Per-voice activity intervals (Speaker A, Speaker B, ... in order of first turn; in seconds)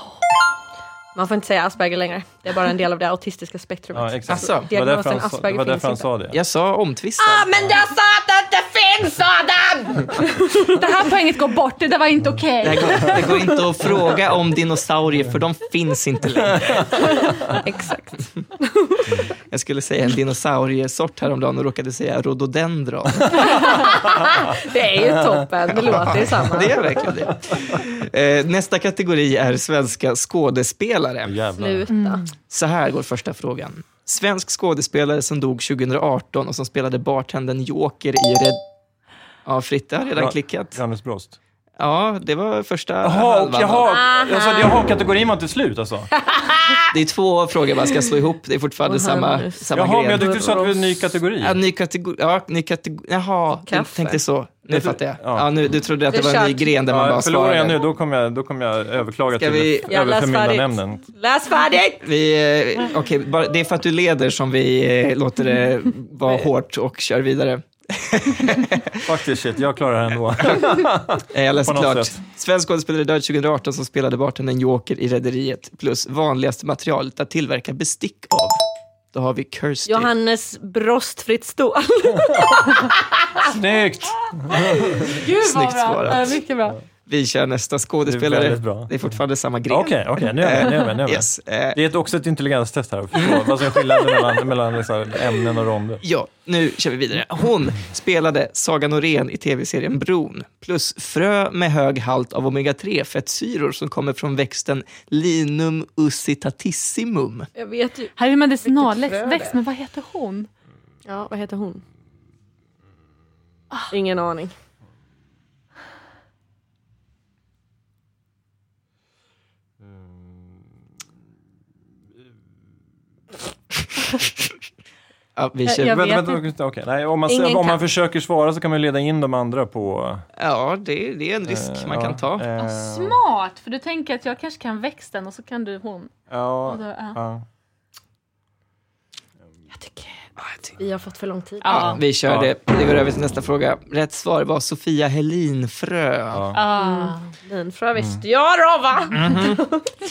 Speaker A: 1.1-6.1, 7.2-10.8, 17.1-19.2, 23.4-26.8, 31.6-32.3, 43.8-44.7, 46.3-46.7, 48.8-50.8, 53.7-54.2, 56.1-56.7, 59.9-62.0, 79.9-83.5, 107.5-109.6, 111.0-111.8, 113.9-114.5, 127.3-127.8, 140.8-142.0, 146.7-149.9
Speaker B: 3.9-6.4, 26.0-26.8, 31.2-31.9, 40.2-41.4, 43.0-46.1, 49.7-51.6, 54.7-55.5, 56.9-61.0, 69.0-72.1, 82.3-82.6, 83.4-85.1, 88.0-88.9, 89.7-96.0, 125.8-130.2, 131.5-133.2, 136.3-137.4, 141.8-142.5, 146.3-146.6, 149.2-149.6
Speaker C: 4.3-4.7, 6.3-7.5, 12.6-17.0, 19.5-23.9, 25.7-31.4, 32.5-38.6, 39.4-40.8, 41.8-43.9, 46.9-50.3, 51.4-57.8, 59.4-59.9, 62.0-69.0, 70.4-70.8, 71.3-78.6, 79.1-80.1, 85.1-86.4, 87.0-91.8, 93.1-93.5, 96.0-107.5, 125.3-126.0, 130.4-132.4, 141.8-146.4, 149.1-149.6
Speaker D: 10.7-13.4, 31.9-32.3, 84.5-86.8, 108.2-110.5, 125.7-126.4, 132.6-136.1, 136.7-137.2, 141.6-142.0, 146.5-147.3